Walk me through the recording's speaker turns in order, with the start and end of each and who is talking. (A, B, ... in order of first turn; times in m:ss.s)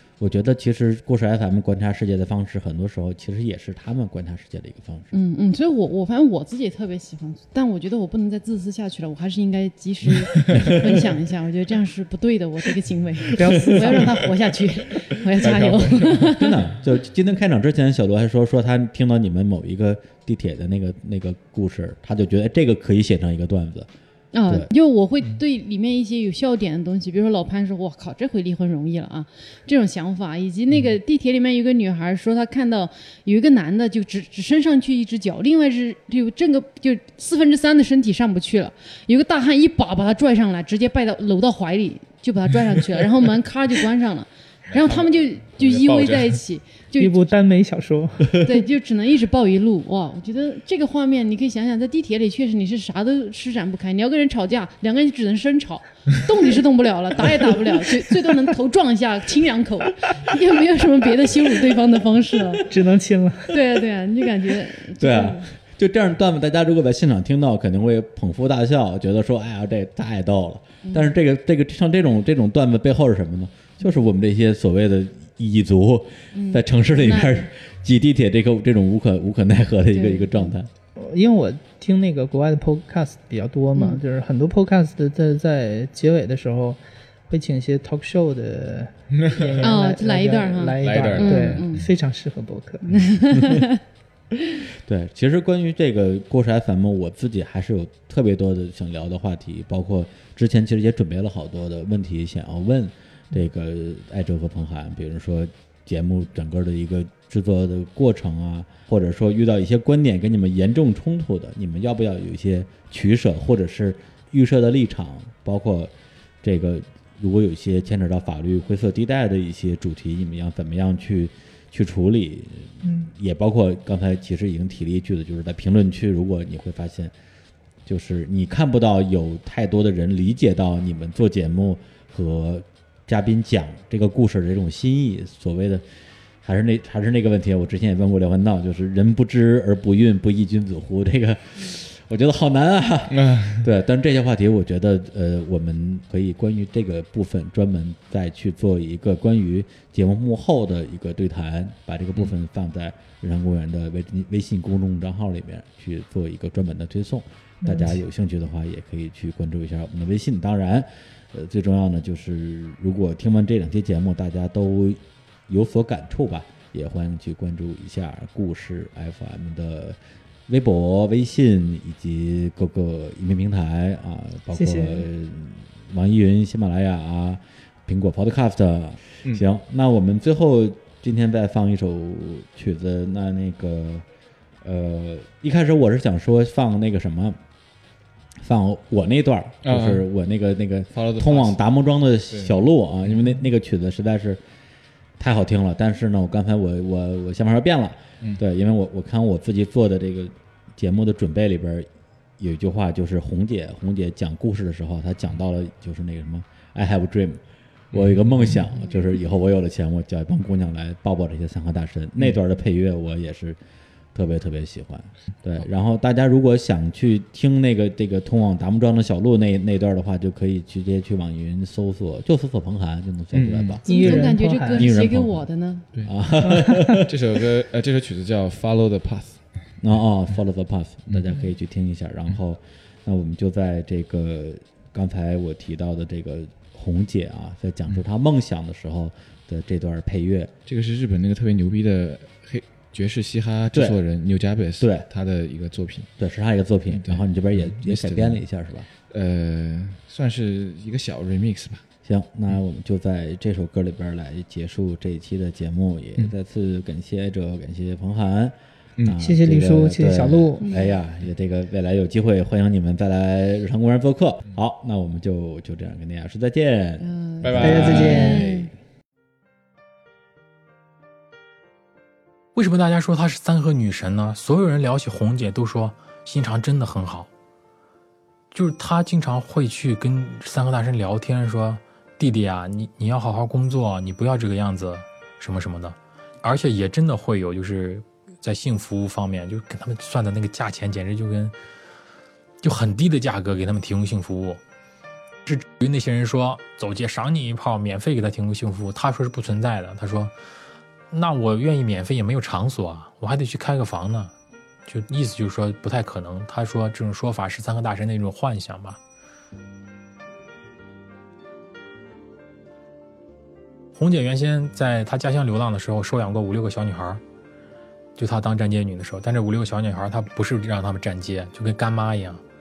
0:00.2-0:05.1 A
0:05.1-0:16.6 B
0:10.4-0:10.7 C
0:10.5-0:11.0 A
0:13.4-0:14.3 D
0:13.6-0:14.2 A
0:15.4-0:16.3 C
0:16.2-0:23.9 A
0:24.3-0:47.3 B
0:44.7-0:46.4 C
0:47.0-0:48.4 D
0:48.4-1:02.7 B
1:02.7-1:03.5 D
1:03.5-1:05.5 B
1:05.0-1:20.7 A
1:10.8-1:11.2 B
1:16.3-1:17.5 B
1:19.9-1:20.6 B
1:21.0-1:33.0 D
1:23.7-1:24.0 B
1:29.1-1:29.7 C
1:29.6-1:31.9 B
1:30.8-1:31.7 C
1:32.8-1:33.8 B
1:33.4-1:33.7 A
1:34.7-1:55.9 A
1:56.4-2:07.1 A
2:02.8-2:03.1 D
2:07.9-2:15.8 A
2:16.4-3:04.0 A
2:23.1-2:23.7 C
2:37.6-2:37.9 D
2:54.5-2:55.1 D
3:04.6-3:07.4 A
3:08.4-3:14.4 A
3:09.6-3:10.1 C
3:10.9-3:11.6 C
3:12.3-3:12.6 C
3:13.1-3:13.3 C
3:15.2-3:27.4 A
3:27.9-3:28.7 C
3:27.9-3:33.6 A
3:34.1-3:45.5 A
3:43.3-3:43.8 C
3:43.9-3:45.9 B
3:43.9-3:44.9 D
3:45.9-3:49.4 C
3:46.1-3:47.1 A
3:46.5-3:47.0 D
3:49.8-4:00.5 A
4:00.7-4:06.1 C
4:03.7-4:04.0 A
4:04.8-4:05.1 A
4:06.2-4:08.9 A
4:06.9-4:08.4 C
4:09.1-4:11.8 C
4:12.0-4:28.7 A
4:19.2-4:20.7 D
4:20.6-4:21.0 B
4:27.0-4:28.7 B
4:27.4-4:28.6 C
4:27.6-4:28.4 D
4:32.6-4:37.3 E
4:38.5-4:51.5 E
4:52.6-4:54.6 E
4:55.5-5:00.3 E
5:01.1-5:04.3 E
5:04.9-5:09.0 E
5:14.0-5:17.2 E
5:18.2-5:22.4 E